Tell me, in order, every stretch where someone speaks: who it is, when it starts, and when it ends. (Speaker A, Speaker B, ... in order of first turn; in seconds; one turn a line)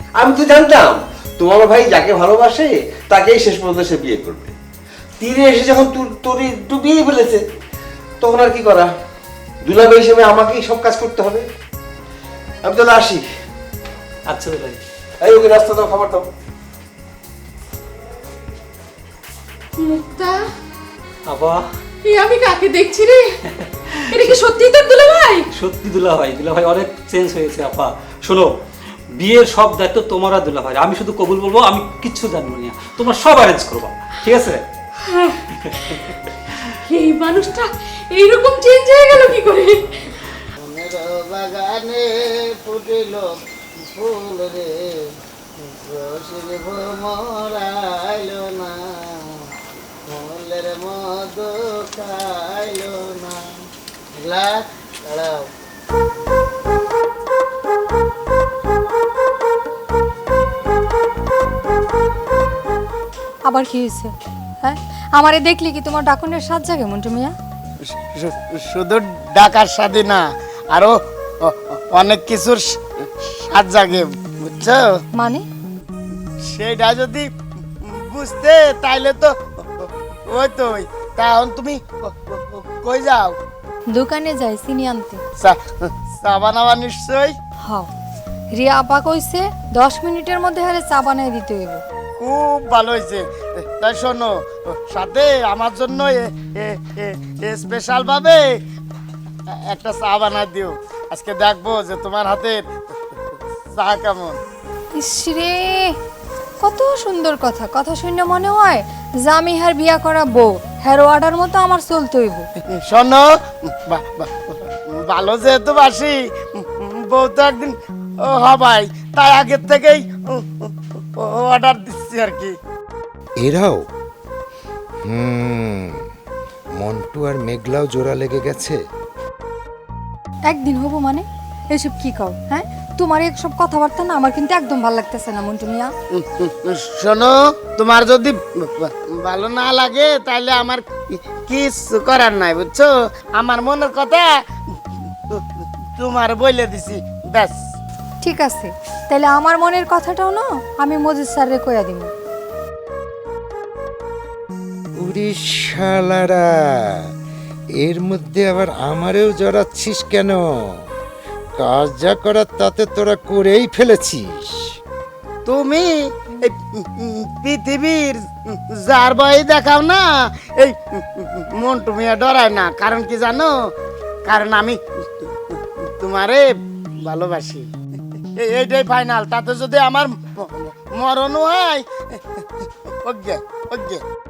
Speaker A: 0.2-4.5
Speaker A: 5.2-7.4
Speaker A: 8.2-8.9
Speaker A: 9.6-11.4
Speaker A: 12.6-13.2
Speaker B: 14.3-14.8
Speaker A: 15.2-16.3
Speaker C: 19.8-20.4
Speaker B: 21.3-21.6
Speaker C: 22.0-23.4
Speaker C: 24.1-25.5
Speaker B: 25.5-28.5
Speaker B: 29.2-34.6
Speaker C: 36.9-39.9
Speaker D: 40.6-43.4
Speaker D: 43.9-44.9
Speaker D: 45.6-49.0
Speaker D: 50.0-53.5
Speaker D: 54.1-55.5
Speaker E: 63.5-67.3
Speaker D: 67.8-75.0
Speaker E: 75.1-75.4
Speaker D: 76.4-77.3
Speaker D: 77.8-83.3
Speaker E: 83.9-85.2
Speaker D: 85.4-87.4
Speaker E: 88.5-91.8
Speaker D: 92.2-98.5
Speaker D: 99.6-104.4
Speaker E: 104.9-106.0
Speaker E: 106.6-112.5
Speaker D: 112.8-122.5
Speaker F: 123.4-123.8
Speaker F: 125.0-126.0
Speaker F: 126.8-128.8
Speaker E: 130.5-135.9
Speaker D: 136.1-144.4
Speaker D: 145.3-147.6
Speaker E: 148.2-152.1
Speaker F: 155.0-157.1
Speaker F: 157.8-160.4
Speaker F: 161.6-164.7
Speaker D: 165.4-173.5
Speaker D: 174.2-176.4
Speaker D: 177.0-177.7
Speaker D: 178.3-182.2
Speaker D: 183.0-184.0